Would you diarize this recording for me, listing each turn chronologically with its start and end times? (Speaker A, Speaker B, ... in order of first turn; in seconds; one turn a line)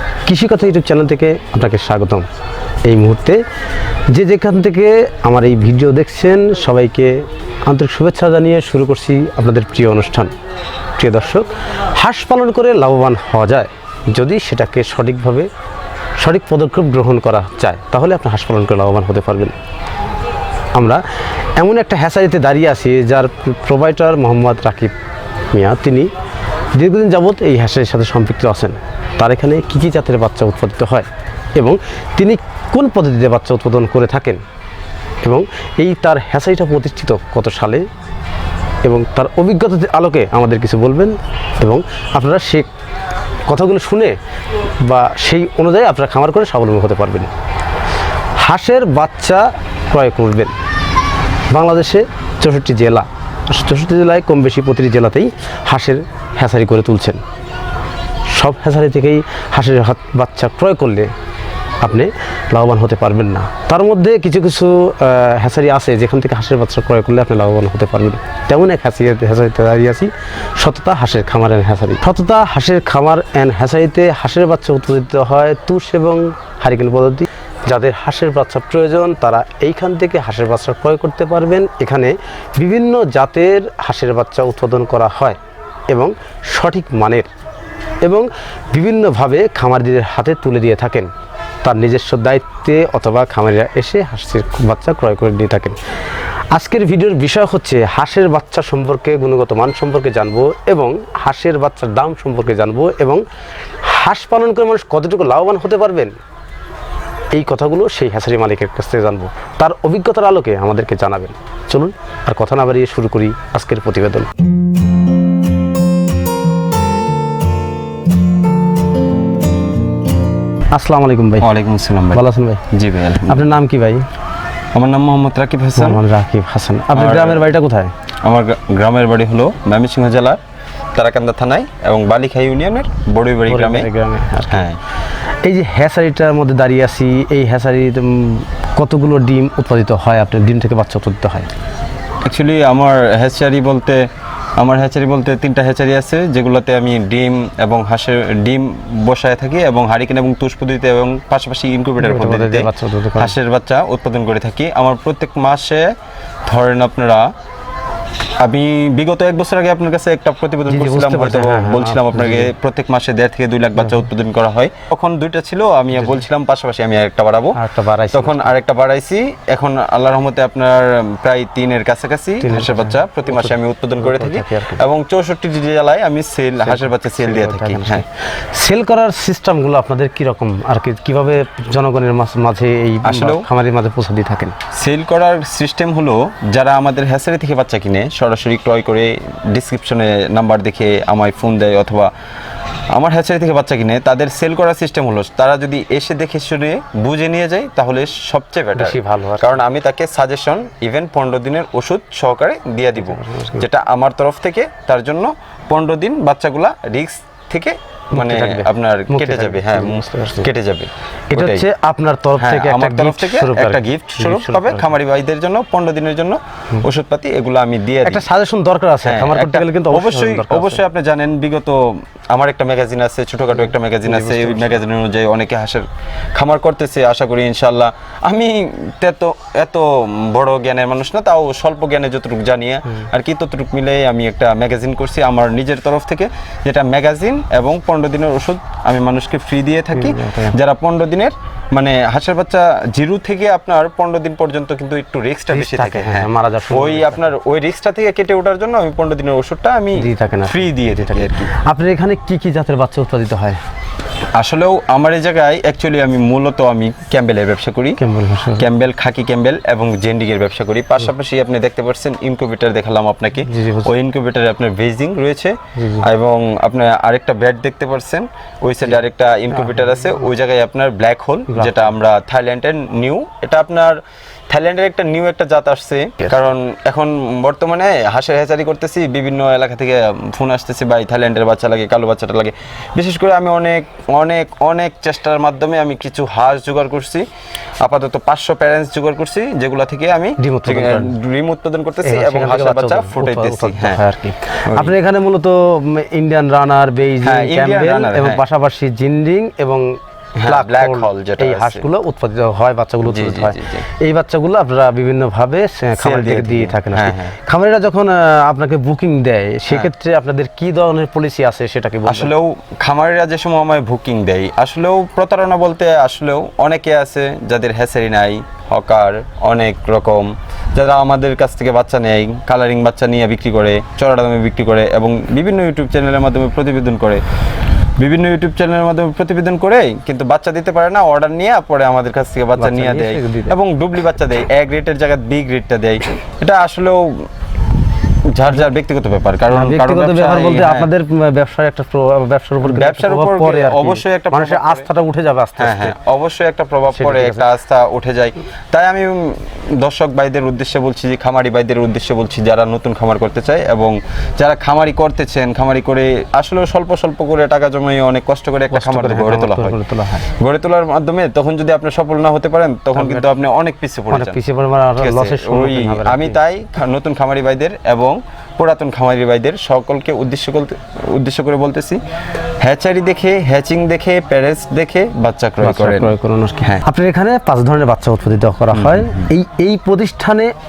Speaker A: 0.2-2.2
Speaker A: 2.8-3.4
Speaker A: 4.1-10.3
Speaker A: 11.0-15.5
Speaker A: 16.2-19.6
Speaker A: 20.7-21.0
Speaker A: 21.6-24.9
Speaker A: 25.5-26.1
Speaker A: 26.7-34.4
Speaker A: 35.2-37.9
Speaker A: 38.8-42.7
Speaker A: 43.5-44.1
Speaker A: 44.8-47.3
Speaker A: 48.4-50.5
Speaker A: 51.5-57.2
Speaker A: 58.3-61.1
Speaker A: 61.8-85.4
Speaker A: 85.9-87.3
Speaker A: 88.0-91.1
Speaker A: 91.6-95.8
Speaker A: 96.5-103.2
Speaker A: 103.8-106.1
Speaker A: 107.3-114.3
Speaker A: 120.7-121.5
Speaker B: 121.4-123.5
Speaker A: 122.1-122.6
Speaker A: 123.3-124.1
Speaker B: 124.7-126.0
Speaker A: 125.8-127.9
Speaker B: 126.9-127.5
Speaker B: 128.2-130.4
Speaker B: 130.9-133.9
Speaker A: 133.5-134.7
Speaker B: 134.5-134.8
Speaker A: 135.4-141.5
Speaker B: 142.2-155.9
Speaker A: 152.0-153.3
Speaker B: 156.4-157.3
Speaker B: 158.4-167.6
Speaker A: 160.7-162.5
Speaker A: 167.5-168.5
Speaker B: 168.1-178.0
Speaker A: 172.4-174.8
Speaker A: 176.6-184.6
Speaker B: 183.0-183.4
Speaker B: 184.7-192.1
Speaker B: 192.9-211.7
Speaker A: 198.7-199.6
Speaker A: 203.0-203.7
Speaker A: 208.1-210.5
Speaker A: 211.3-214.9
Speaker B: 212.4-218.2
Speaker A: 218.0-220.8
Speaker B: 219.0-251.5
Speaker A: 223.7-224.8
Speaker A: 239.9-240.5
Speaker A: 245.5-247.3
Speaker A: 249.9-253.6
Speaker B: 254.3-258.0
Speaker A: 258.0-258.7
Speaker B: 258.5-287.3
Speaker A: 263.4-263.9
Speaker A: 265.8-266.1
Speaker A: 269.6-270.1
Speaker A: 271.5-271.8
Speaker B: 287.8-294.0
Speaker A: 290.4-291.1
Speaker A: 292.0-312.3
Speaker B: 294.7-294.9
Speaker B: 297.2-298.4
Speaker B: 300.4-301.9
Speaker B: 303.0-303.9
Speaker B: 305.9-307.3
Speaker B: 312.1-327.2
Speaker B: 328.0-337.3
Speaker A: 332.6-333.5
Speaker B: 338.2-340.9
Speaker A: 339.5-345.9
Speaker B: 342.6-344.9
Speaker B: 345.6-359.8
Speaker A: 346.9-347.5
Speaker A: 358.7-360.3
Speaker B: 360.4-364.4
Speaker A: 362.9-363.2
Speaker A: 364.1-366.4
Speaker B: 365.0-372.0
Speaker B: 372.6-376.1
Speaker A: 375.6-380.5
Speaker B: 378.7-379.3